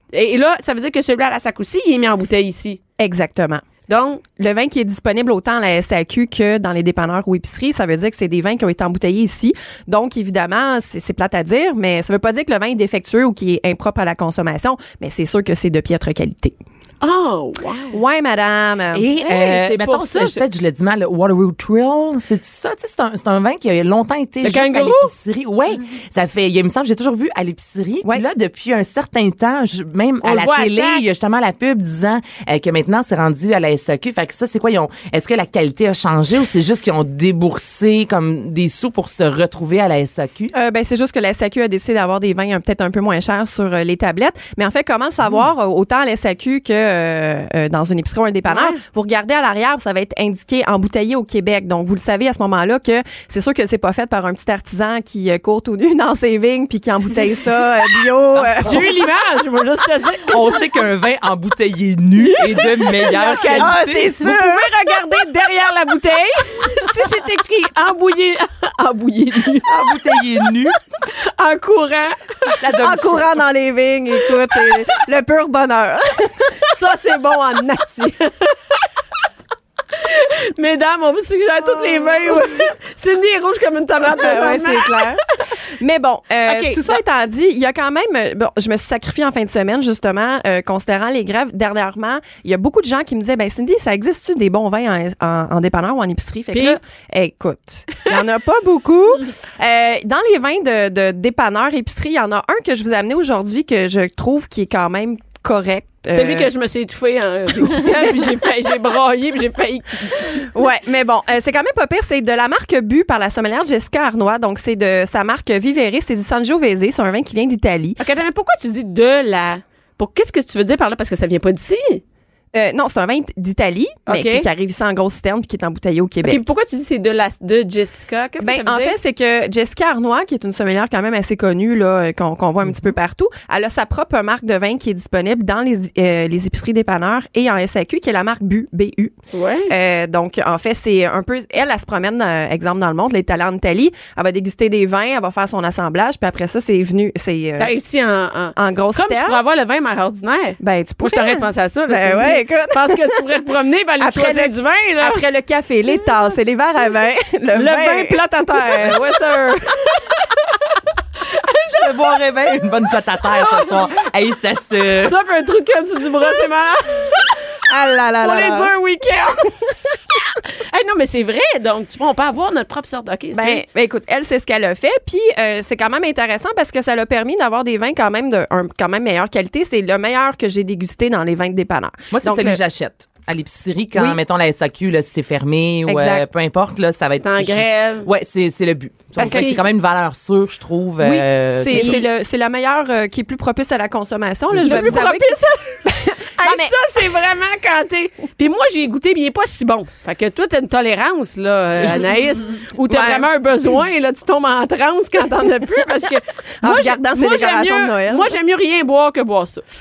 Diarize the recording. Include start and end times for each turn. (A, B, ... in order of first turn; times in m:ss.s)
0:00.1-0:02.8 A
0:03.0-0:03.6 B
0:03.9-0:04.2 A
0:04.3-0:16.6 B
0:17.0-0:18.0 A
0:17.9-0:19.1 B
0:18.9-0:40.5 C
0:19.2-0:20.4 A
0:24.4-0:25.1 A
0:30.2-0:31.0 A
0:40.5-0:58.9 B
0:48.5-0:48.8 A
0:58.4-0:58.9 C
0:58.6-1:00.6 A
1:00.3-1:04.3 C
1:02.2-1:09.7 A
1:03.2-1:04.7 B
1:09.7-1:10.8 C
1:11.1-1:12.6 A
1:12.6-1:13.4 C
1:12.8-1:16.6 B
1:16.7-1:18.8 A
1:19.9-1:25.2 A
1:21.8-1:22.4 B
1:24.2-1:25.2 B
1:25.8-1:46.5 B
1:26.5-1:27.0 A
1:36.5-1:36.8 A
1:46.1-1:50.4 A
1:47.6-1:48.2 B
1:50.3-1:58.0 B
1:58.0-2:02.0 A
2:02.5-2:06.4 B
2:04.1-2:04.5 A
2:06.2-2:09.0 A
2:08.4-2:19.2 B
2:19.3-2:19.7 A
2:19.7-2:27.8 B
2:27.6-2:35.2 A
2:28.6-2:29.4 B
2:30.6-2:33.2 B
2:34.0-2:39.0 B
2:37.5-2:40.7 A
2:41.3-2:41.9 A
2:41.7-2:45.2 C
2:43.2-2:43.8 A
2:45.0-2:47.4 A
2:47.7-2:48.7 B
2:48.2-2:49.6 A
2:50.4-2:53.6 A
2:53.3-3:02.6 B
3:02.1-3:12.1 C
3:05.9-3:06.3 B
3:07.2-3:08.1 A
3:09.2-3:09.6 A
3:09.2-3:09.5 B
3:11.0-3:16.7 B
3:11.7-3:12.0 A
3:14.5-3:15.0 C
3:14.6-3:15.8 A
3:16.4-3:29.6 A
3:22.9-3:23.3 B
3:26.6-3:28.3 B